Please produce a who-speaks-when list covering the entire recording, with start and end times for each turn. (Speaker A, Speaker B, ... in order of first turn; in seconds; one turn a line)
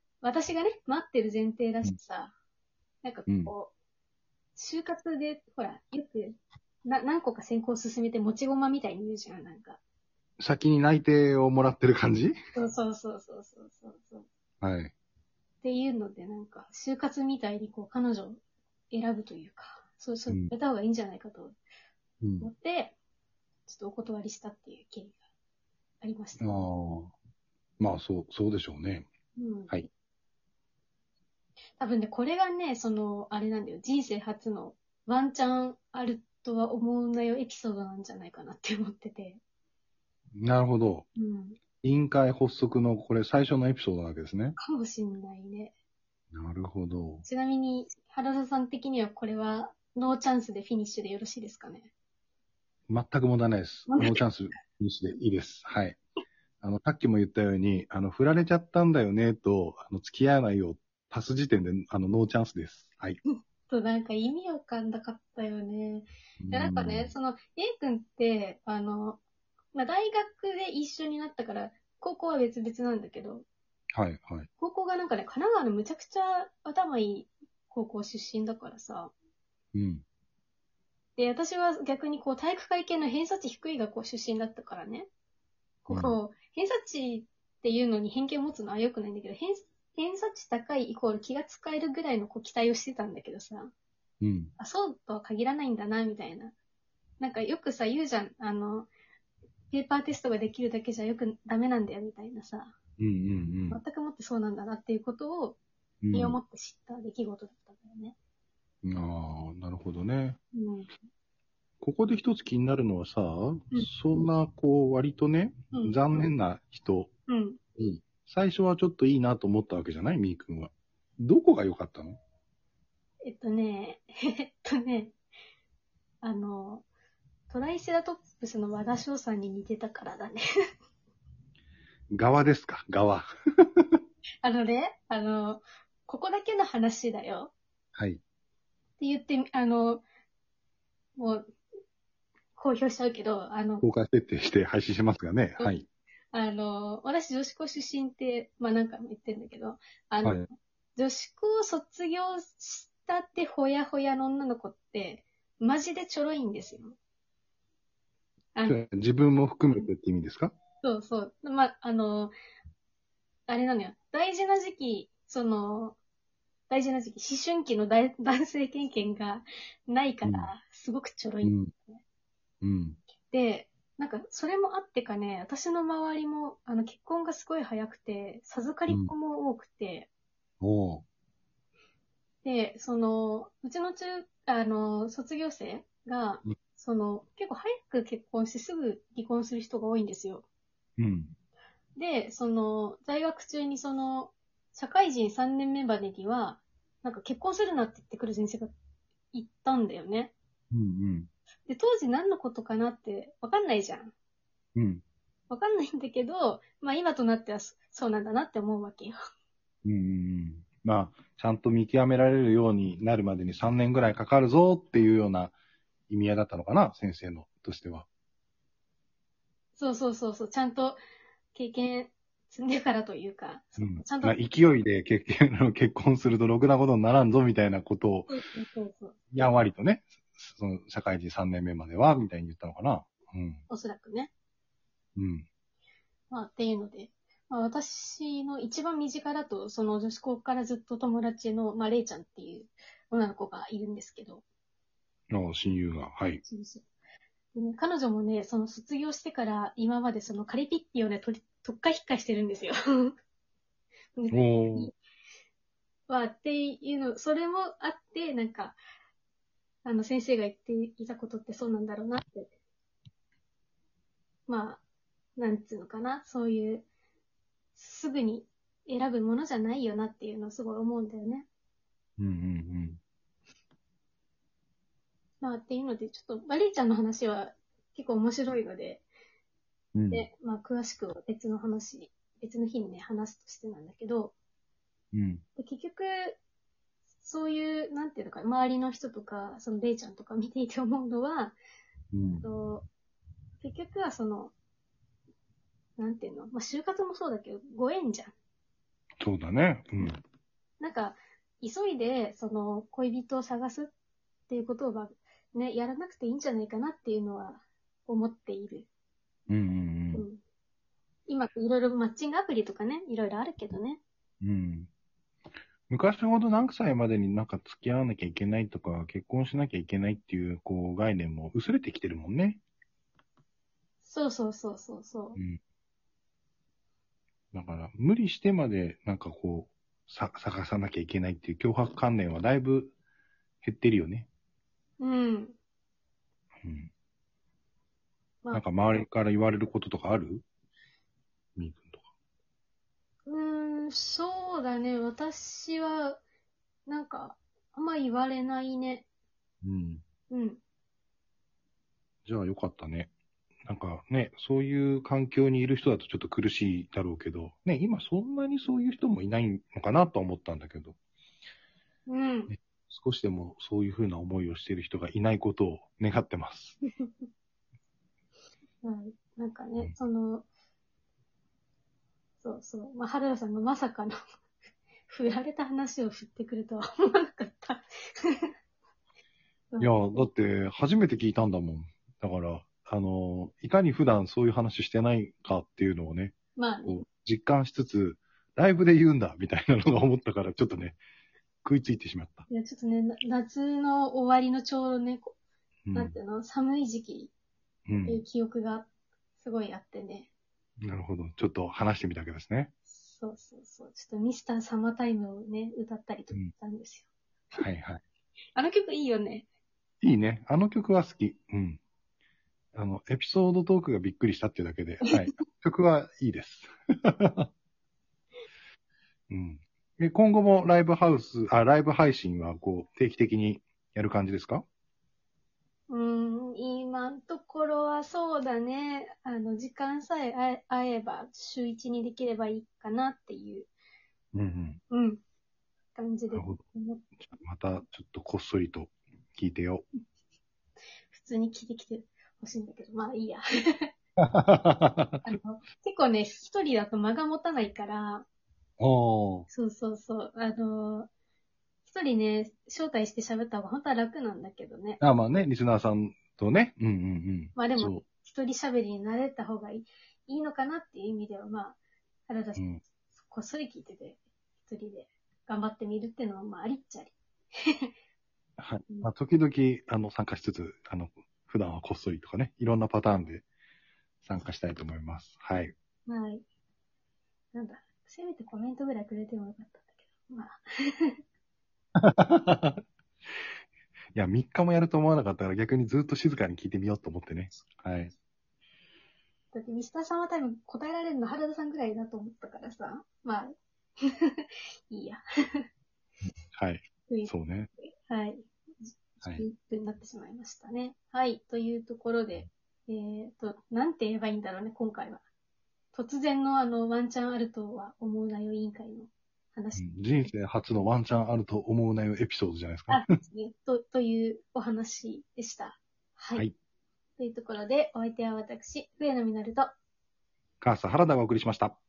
Speaker A: 0.2-2.3
Speaker A: 3.0-3.7
Speaker B: 3.3-3.5
Speaker A: 4.6-9.8
Speaker B: 10.4-12.3
Speaker A: 12.6-14.3
Speaker B: 14.6-14.9
Speaker A: 15.6-18.4
Speaker A: 18.9-21.6
Speaker B: 22.2-22.5
Speaker A: 22.4-22.9
Speaker A: 23.7-25.2
Speaker A: 26.0-26.6
Speaker B: 26.4-27.1
Speaker B: 27.8-29.1
Speaker A: 29.4-29.7
Speaker A: 31.8-39.4
Speaker B: 40.4-41.1
Speaker A: 41.2-41.6
Speaker B: 41.8-44.6
Speaker A: 44.6-45.7
Speaker B: 46.3-47.2
Speaker A: 47.2-51.9
Speaker B: 52.9-56.0
Speaker A: 53.9-54.2
Speaker B: 56.6-63.2
Speaker A: 63.7-69.2
Speaker B: 66.4-67.1
Speaker A: 69.7-73.5
Speaker B: 74.0-74.5
Speaker A: 74.6-79.1
Speaker B: 79.7-80.0
Speaker A: 81.2-85.1
Speaker A: 85.9-93.7
Speaker B: 85.9-86.2
Speaker B: 94.2-94.5
Speaker A: 94.6-96.5
Speaker A: 97.2-98.9
Speaker A: 99.7-102.8
Speaker B: 103.0-103.8
Speaker A: 103.7-105.6
Speaker B: 106.0-106.4
Speaker A: 106.1-108.2
Speaker B: 108.8-110.4
Speaker A: 110.5-110.9
Speaker B: 111.8-117.1
Speaker A: 115.7-116.0
Speaker A: 117.3-117.6
Speaker B: 117.8-122.2
Speaker A: 123.2-125.2
Speaker A: 126.2-126.8
Speaker A: 127.5-130.4
Speaker B: 132.1-134.0
Speaker A: 134.4-137.5
Speaker B: 138.0-138.2
Speaker A: 139.0-140.0
Speaker A: 141.2-141.5
Speaker A: 142.6-143.8
Speaker B: 143.8-145.9
Speaker A: 146.3-157.0
Speaker A: 158.6-158.8
Speaker B: 158.7-160.5
Speaker A: 160.8-162.3
Speaker A: 163.5-166.0
Speaker A: 166.7-172.0
Speaker B: 170.2-170.5
Speaker B: 171.4-171.7
Speaker B: 172.6-173.0
Speaker A: 173.3-180.1
Speaker B: 180.6-181.0
Speaker A: 182.4-190.5
Speaker B: 191.0-191.3
Speaker A: 192.0-198.8
Speaker A: 199.3-200.3
Speaker B: 200.7-201.3
Speaker A: 201.7-204.1
Speaker B: 204.8-205.0
Speaker A: 205.5-209.2
Speaker B: 209.8-215.6
Speaker B: 216.1-218.1
Speaker A: 219.8-221.0
Speaker A: 221.5-224.4
Speaker B: 223.8-228.3
Speaker A: 228.3-229.2
Speaker B: 229.3-233.6
Speaker A: 233.7-234.3
Speaker B: 235.2-235.5
Speaker A: 236.3-244.4
Speaker B: 245.3-246.4
Speaker A: 246.4-246.9
Speaker A: 247.5-253.2
Speaker A: 254.2-254.9
Speaker B: 254.3-254.9
Speaker A: 256.1-258.8
Speaker A: 259.9-262.5
Speaker A: 264.5-264.8
Speaker A: 265.4-266.9
Speaker A: 267.8-271.5
Speaker B: 272.2-273.0
Speaker A: 275.4-279.1
Speaker B: 279.9-280.3
Speaker A: 280.1-284.3
Speaker B: 285.1-285.4
Speaker A: 285.6-286.4
Speaker A: 287.2-291.6
Speaker B: 292.1-292.5
Speaker A: 292.4-292.9
Speaker A: 293.6-294.5
Speaker A: 296.0-298.3
Speaker B: 299.2-300.2
Speaker A: 300.8-303.9
Speaker A: 304.5-308.9
Speaker B: 309.5-310.2
Speaker A: 310.1-310.4
Speaker A: 311.3-314.0
Speaker B: 314.4-314.9
Speaker B: 315.9-322.6
Speaker A: 324.0-325.4
Speaker B: 327.5-332.9
Speaker B: 333.6-334.3
Speaker A: 335.0-335.6
Speaker B: 336.6-336.9
Speaker B: 338.5-340.4
Speaker B: 341.6-342.1
Speaker A: 343.3-346.2
Speaker A: 346.9-349.1
Speaker B: 349.6-350.0
Speaker A: 350.3-350.6
Speaker B: 352.3-353.1
Speaker B: 353.7-361.0
Speaker A: 362.1-362.5
Speaker B: 362.5-366.8
Speaker A: 367.0-367.3
Speaker A: 368.8-370.5
Speaker A: 372.4-374.2
Speaker A: 375.1-378.5
Speaker A: 379.7-380.3
Speaker B: 379.8-391.0
Speaker A: 386.6-387.0
Speaker B: 391.6-392.5
Speaker A: 392.5-395.4
Speaker B: 395.9-396.2
Speaker A: 395.9-397.3
Speaker B: 397.9-398.2
Speaker A: 398.0-398.9
Speaker A: 399.4-400.3
Speaker B: 400.8-402.7
Speaker A: 402.9-407.1
Speaker B: 407.6-408.0
Speaker A: 408.6-409.5
Speaker B: 410.0-411.8
Speaker B: 412.8-417.5
Speaker B: 419.3-424.6
Speaker A: 425.9-433.7
Speaker B: 434.3-434.8
Speaker A: 434.9-435.2
Speaker A: 435.9-437.0
Speaker B: 436.3-436.6
Speaker B: 437.2-439.9
Speaker A: 441.1-443.9
Speaker B: 444.2-445.2
Speaker A: 445.2-448.2
Speaker B: 448.8-449.5
Speaker A: 449.5-451.1
Speaker A: 451.9-455.0
Speaker B: 455.0-458.0
Speaker A: 457.6-461.8
Speaker A: 462.3-467.9
Speaker B: 462.6-462.8
Speaker B: 468.6-473.4
Speaker B: 474.2-475.7
Speaker A: 476.1-476.4
Speaker A: 477.5-481.2
Speaker B: 482.0-482.8
Speaker B: 484.1-488.1
Speaker A: 489.5-495.7
Speaker B: 496.5-497.7
Speaker A: 497.1-505.2
Speaker A: 505.9-509.8
Speaker B: 509.8-513.1
Speaker A: 512.9-516.5
Speaker A: 517.2-519.7
Speaker B: 520.6-521.8